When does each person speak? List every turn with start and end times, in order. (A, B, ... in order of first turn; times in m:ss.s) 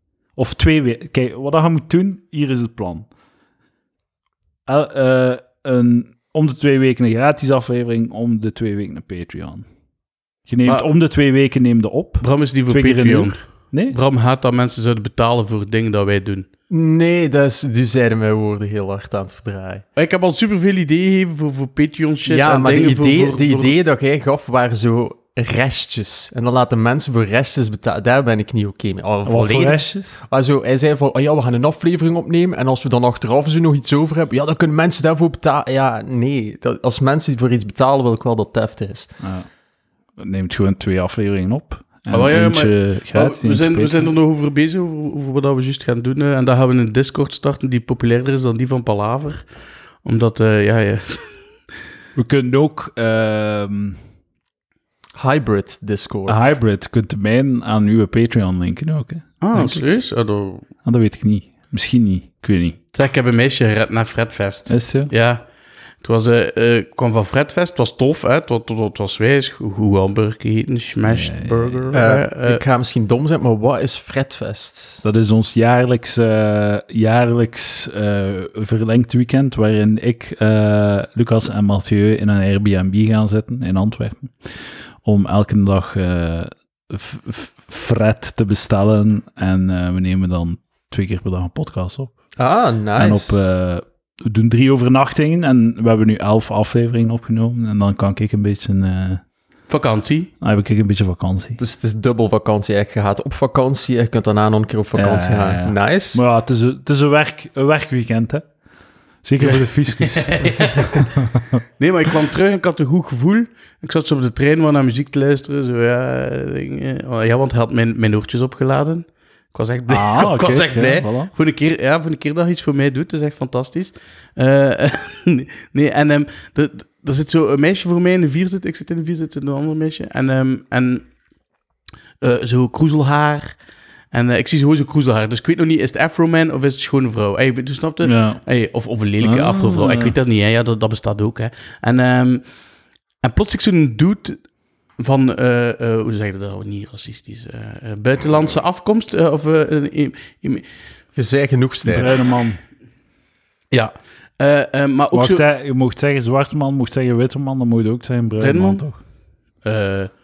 0:00.4-0:03.1 A
0:04.7-0:09.6 A
0:10.5-0:14.0 A
0:12.2-0:16.4 B
0:16.7-0:19.8 C
0:20.0-0:23.7 B
0:22.2-0:39.1 C
0:29.2-0:30.2 A
0:40.2-0:44.1 A
0:42.1-0:49.4 B
0:50.0-0:51.3 B
0:52.2-0:54.0 A
0:55.2-0:56.6 C
0:56.3-0:59.9 A
0:59.4-1:00.6 B
1:00.8-1:02.8 A
1:02.9-1:05.4 B
1:04.7-1:05.1 A
1:06.0-1:12.6 B
1:11.0-1:11.9 A
1:11.9-1:15.0 C
1:15.0-1:24.3 A
1:25.0-1:32.1 A
1:32.4-1:33.5 C
1:33.0-1:39.2 A
1:39.7-1:40.3 B
1:40.4-1:41.6 A
1:41.6-1:46.2 C
1:44.9-1:48.5 A
1:49.2-1:51.6 A
1:49.4-1:51.1 B
1:51.8-2:11.1 B
1:59.9-2:01.3 A
2:12.2-2:13.6 B
2:14.1-2:22.4 B
2:18.0-2:18.4 A
2:19.2-2:20.1 A
2:23.2-2:24.4 B
2:25.0-2:30.6 B
2:31.1-2:32.1 C
2:31.8-2:32.6 A
2:33.7-2:35.4 B
2:35.1-2:39.0 A
2:38.4-2:38.8 B
2:39.6-2:40.1 B